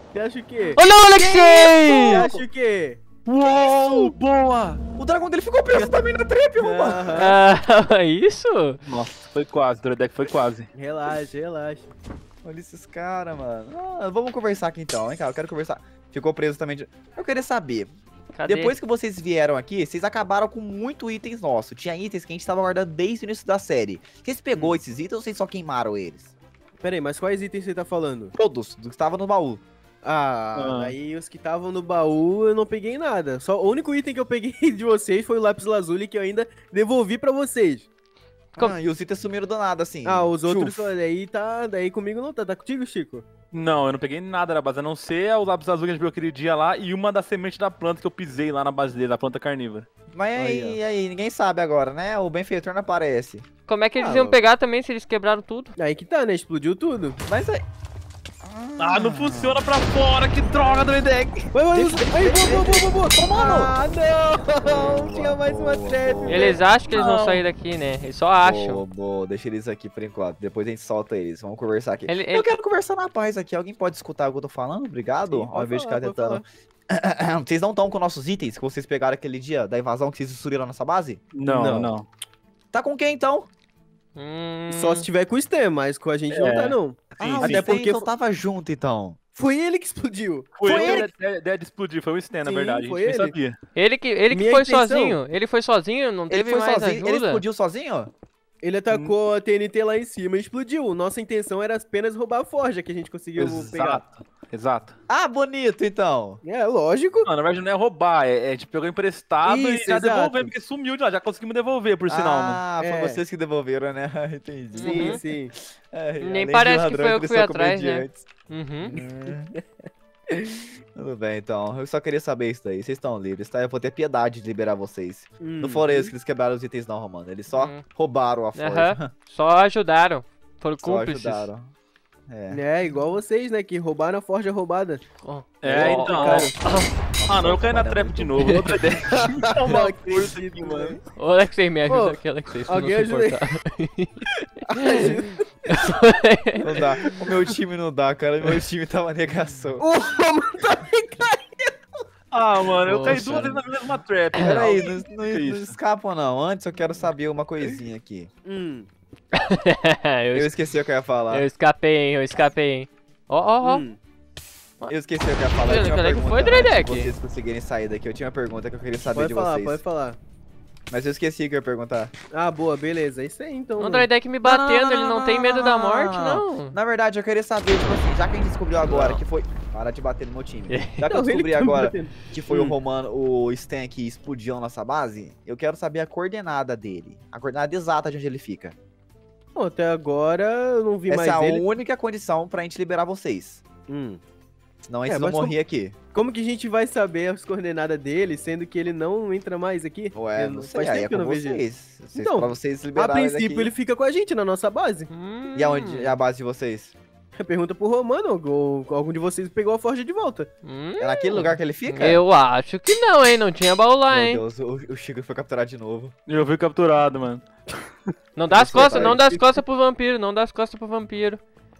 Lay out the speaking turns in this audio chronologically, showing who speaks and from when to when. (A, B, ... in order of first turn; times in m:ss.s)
0:00.1-0:00.8 A
0:00.8-0:02.3 B
0:01.2-0:02.4 C
0:02.0-0:03.0 A
0:03.2-0:04.8 D
0:03.7-0:04.1 C
0:05.0-0:07.4 C
0:06.6-0:07.4 A
0:07.1-0:08.8 B
0:08.8-0:10.7 D
0:10.7-0:11.9 A
0:12.4-0:17.9 C
0:18.3-0:18.8 B
0:18.4-0:26.3 C
0:24.5-0:24.8 A
0:26.8-0:28.3 A
0:28.3-0:29.6 C
0:30.0-0:37.9 A
0:30.6-0:31.0 D
0:38.6-0:40.9 C
0:40.0-0:43.2 A
0:43.5-0:50.8 D
0:50.1-0:53.4 C
0:53.7-0:55.7 B
0:54.0-0:54.4 C
0:55.8-0:57.2 A
0:57.2-0:57.6 C
0:58.4-0:59.6 C
0:58.8-1:01.3 D
1:00.6-1:03.7 C
1:01.5-1:06.6 A
1:04.7-1:06.6 C
1:06.3-1:08.8 B
1:06.9-1:07.4 D
1:08.4-1:21.9 C
1:12.1-1:12.5 B
1:15.3-1:16.4 A
1:21.3-1:22.1 D
1:21.4-1:21.9 A
1:22.7-1:23.5 C
1:24.2-1:25.1 B
1:24.7-1:28.1 A
1:26.3-1:26.8 D
1:27.2-1:29.2 C
1:27.4-1:27.7 D
1:29.3-1:31.1 A
1:30.5-1:33.6 D
1:30.6-1:31.1 C
1:32.4-1:33.4 A
1:33.7-1:37.4 B
1:34.3-1:35.2 A
1:36.3-1:38.1 C
1:38.6-1:44.0 A
1:43.4-1:44.9 D
1:45.1-1:46.4 C
1:46.4-1:47.3 A
1:47.2-1:52.6 D
1:49.4-1:50.5 A
1:52.1-1:58.2 C
1:52.8-1:53.2 A
1:54.8-1:55.2 B
1:54.8-1:55.5 A
1:56.2-1:58.9 B
1:58.8-1:59.6 A
1:58.9-1:59.5 C
2:00.9-2:09.1 C
2:05.4-2:06.1 A
2:07.5-2:07.8 B
2:08.5-2:11.5 B
2:10.8-2:11.7 C
2:12.3-2:12.6 C
2:12.5-2:15.0 A
2:15.2-2:16.8 B
2:15.6-2:16.6 D
2:15.6-2:16.5 A
2:17.2-2:18.3 C
2:17.2-2:21.0 D
2:19.1-2:21.0 A
2:21.1-2:25.1 B
2:21.9-2:23.4 A
2:24.7-2:25.4 A
2:25.7-2:26.6 B
2:26.6-2:29.8 C
2:29.8-2:31.6 A
2:32.3-2:35.7 D
2:32.8-2:33.6 B
2:33.2-2:33.4 C
2:34.4-2:34.7 B
2:34.4-2:38.3 C
2:38.4-2:38.9 A
2:39.4-2:40.6 B
2:40.3-2:41.4 C
2:41.3-2:43.8 B
2:43.6-2:44.0 A
2:44.9-2:49.8 C
2:45.6-2:47.1 B
2:49.1-2:50.2 A
2:50.9-2:52.1 C
2:52.3-2:54.1 A
2:53.8-2:56.8 B
2:54.4-3:08.7 C
2:58.8-2:59.2 B
3:00.7-3:01.0 B
3:01.1-3:02.7 A
3:09.5-3:11.6 A
3:11.1-3:13.6 C
3:13.9-3:14.2 A
3:14.8-3:16.0 C
3:15.1-3:15.5 A
3:16.1-3:21.6 A
3:20.1-3:23.7 C
3:22.1-3:25.1 A
3:25.1-3:26.2 B
3:25.5-3:26.9 C
3:27.4-3:30.5 A
3:30.6-3:34.4 B
3:31.0-3:32.2 C
3:34.1-3:36.1 C
3:36.3-3:37.5 D
3:38.4-3:41.4 B
3:38.5-3:39.2 C
3:38.8-3:39.4 A